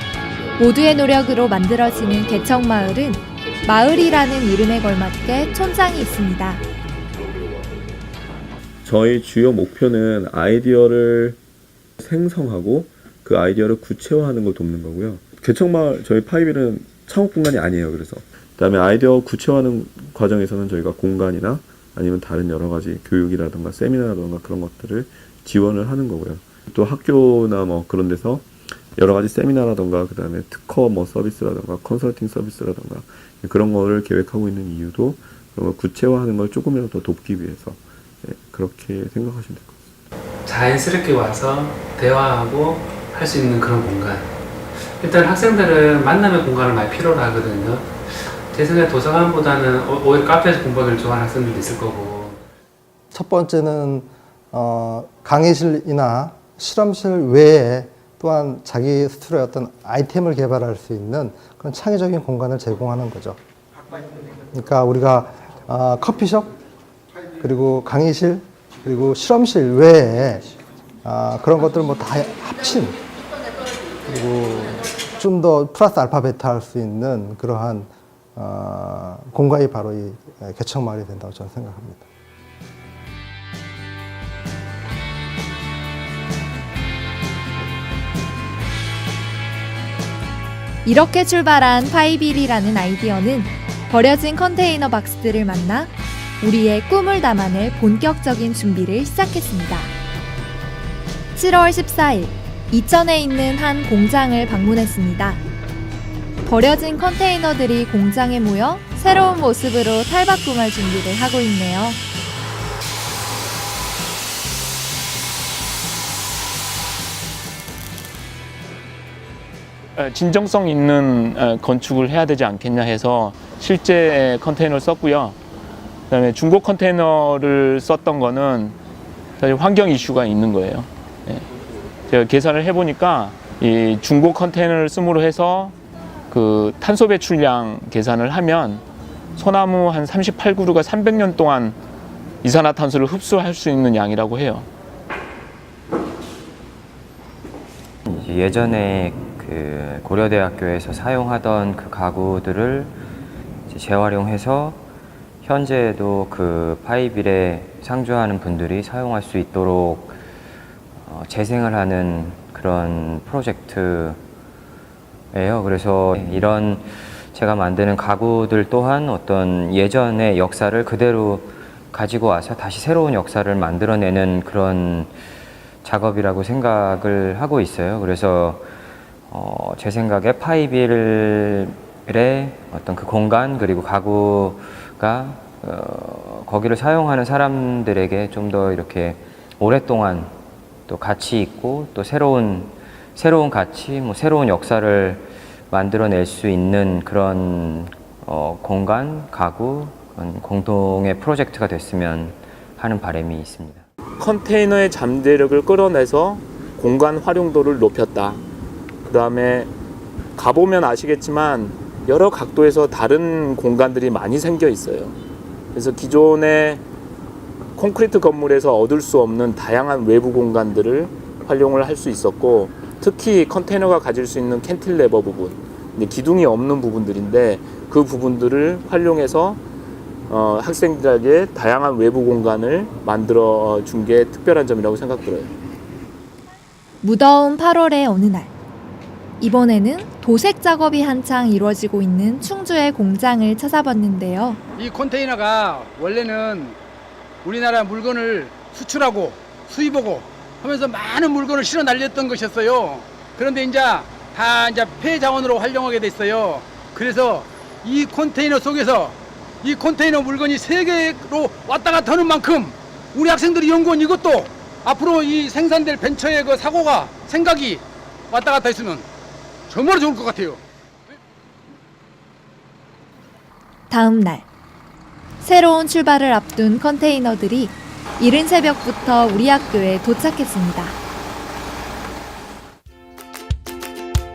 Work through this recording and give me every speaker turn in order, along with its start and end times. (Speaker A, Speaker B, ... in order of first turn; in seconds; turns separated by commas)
Speaker A: 0.6-6.6, Speaker B: 3.4-4.2, Speaker B: 5.4-5.8, Speaker B: 6.4-7.8, Speaker B: 8.8-11.4, Speaker B: 12.0-39.8, Speaker C: 40.5-52.4, Speaker D: 53.1-63.4, Speaker D: 64.5-66.5, Speaker D: 67.4-73.0, Speaker D: 74.1-82.0, Speaker A: 90.8-99.9, Speaker A: 101.3-105.4, Speaker A: 106.5-112.0, Speaker E: 120.0-125.4, Speaker E: 126.1-128.8, Speaker E: 129.4-131.5, Speaker E: 132.1-135.8, Speaker E: 136.3-138.8, Speaker E: 139.4-141.8, Speaker E: 142.4-144.7, Speaker F: 148.1-152.9, Speaker F: 153.7-154.8, Speaker F: 155.4-160.2, Speaker F: 161.0-164.2, Speaker F: 165.3-175.1, Speaker F: 175.8-178.7, Speaker F: 179.3-190.3, Speaker F: 190.9-203.8, Speaker E: 204.2-208.4, Speaker E: 209.1-209.7, Speaker E: 210.4-215.2, Speaker E: 215.8-216.8, Speaker E: 217.8-229.6, Speaker E: 230.3-235.5, Speaker A: 237.0-238.5, Speaker A: 239.4-244.6, Speaker G: 244.8-246.8, Speaker G: 247.4-269.1, Speaker G: 269.7-270.6, Speaker A: 273.9-274.5, Speaker A: 275.4-281.0